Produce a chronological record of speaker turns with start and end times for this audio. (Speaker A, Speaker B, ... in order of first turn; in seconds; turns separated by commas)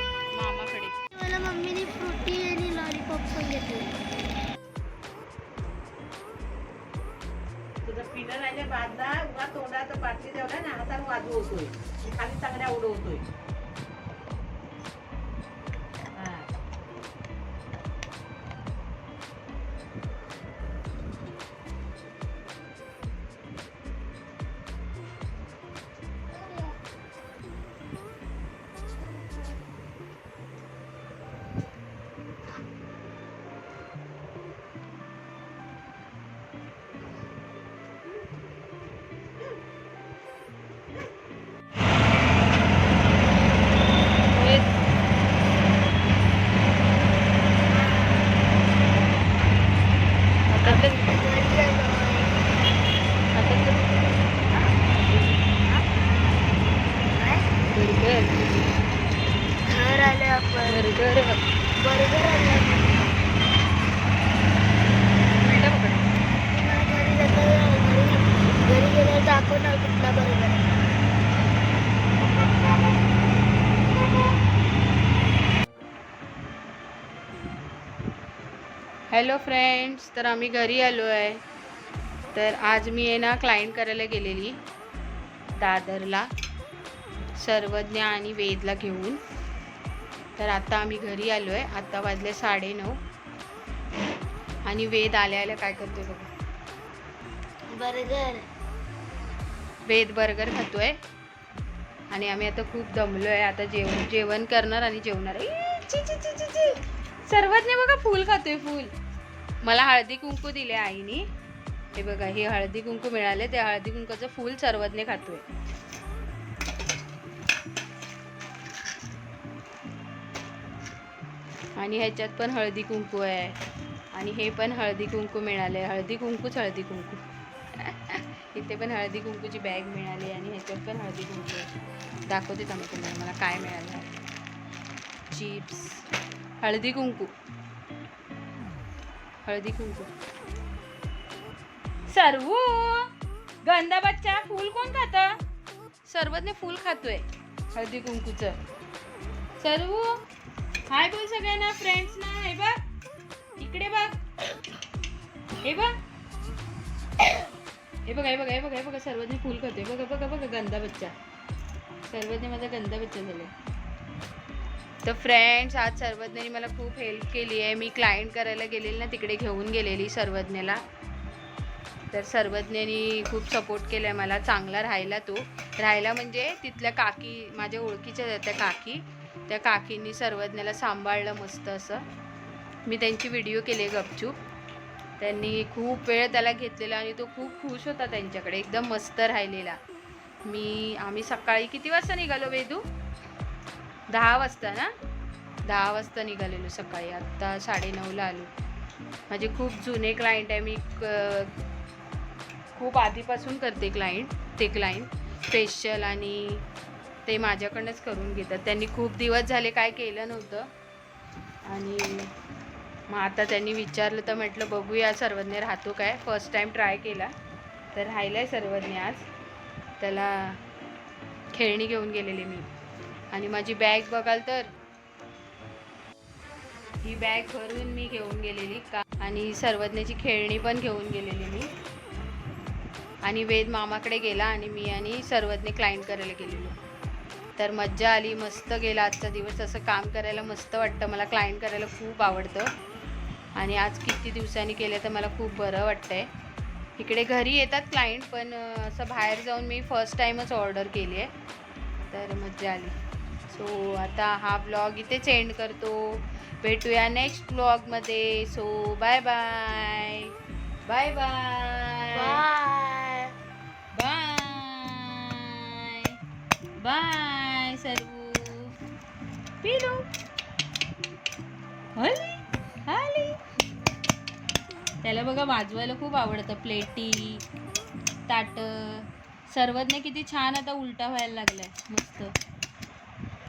Speaker A: 0.4-1.0, Speaker B: 1.1-4.0, Speaker C: 7.8-13.2, Speaker C: 16.2-16.5, Speaker A: 44.3-44.7, Speaker A: 50.5-51.1, Speaker B: 50.6-52.3, Speaker A: 53.4-53.8, Speaker B: 57.1-57.4, Speaker A: 57.7-58.6, Speaker B: 59.7-60.8, Speaker A: 60.7-61.4, Speaker B: 61.8-63.0, Speaker A: 65.4-66.1, Speaker B: 66.5-70.7, Speaker A: 79.1-81.4, Speaker A: 82.3-84.5, Speaker A: 85.6-86.2, Speaker A: 87.4-89.2, Speaker A: 90.4-93.0, Speaker A: 94.7-96.3, Speaker B: 97.7-98.4, Speaker A: 99.9-100.9, Speaker A: 102.1-108.9, Speaker A: 109.6-111.2, Speaker A: 112.0-115.4, Speaker A: 121.8-123.6, Speaker A: 124.2-127.2, Speaker A: 127.8-131.7, Speaker A: 132.3-134.2, Speaker A: 135.3-136.0, Speaker A: 136.6-137.3, Speaker A: 139.5-140.1, Speaker A: 142.1-143.1, Speaker A: 143.7-145.3, Speaker A: 146.1-148.6, Speaker A: 149.6-150.1, Speaker A: 150.9-152.8, Speaker A: 153.6-154.2, Speaker A: 155.6-155.9, Speaker A: 158.1-161.1, Speaker A: 162.1-163.5, Speaker A: 165.0-170.8, Speaker A: 172.1-182.0, Speaker A: 182.9-184.4, Speaker A: 185.2-189.8, Speaker A: 190.5-192.8, Speaker A: 194.1-194.9, Speaker A: 195.7-198.5, Speaker A: 199.3-201.5, Speaker A: 202.8-206.6, Speaker A: 207.3-210.7, Speaker A: 211.7-212.3, Speaker A: 213.1-217.3, Speaker A: 217.9-219.3, Speaker A: 220.0-220.5, Speaker A: 221.5-222.7, Speaker A: 223.3-224.7, Speaker A: 227.0-231.7, Speaker A: 233.2-236.7, Speaker A: 237.6-242.7, Speaker A: 243.6-246.3, Speaker A: 247.0-251.3, Speaker A: 252.1-252.9, Speaker A: 253.5-260.3, Speaker A: 260.9-262.4, Speaker B: 262.1-263.3, Speaker A: 263.9-266.2, Speaker A: 266.8-268.7, Speaker A: 269.6-270.1, Speaker A: 272.0-272.3, Speaker A: 272.9-273.4, Speaker A: 275.0-277.4, Speaker A: 278.3-282.3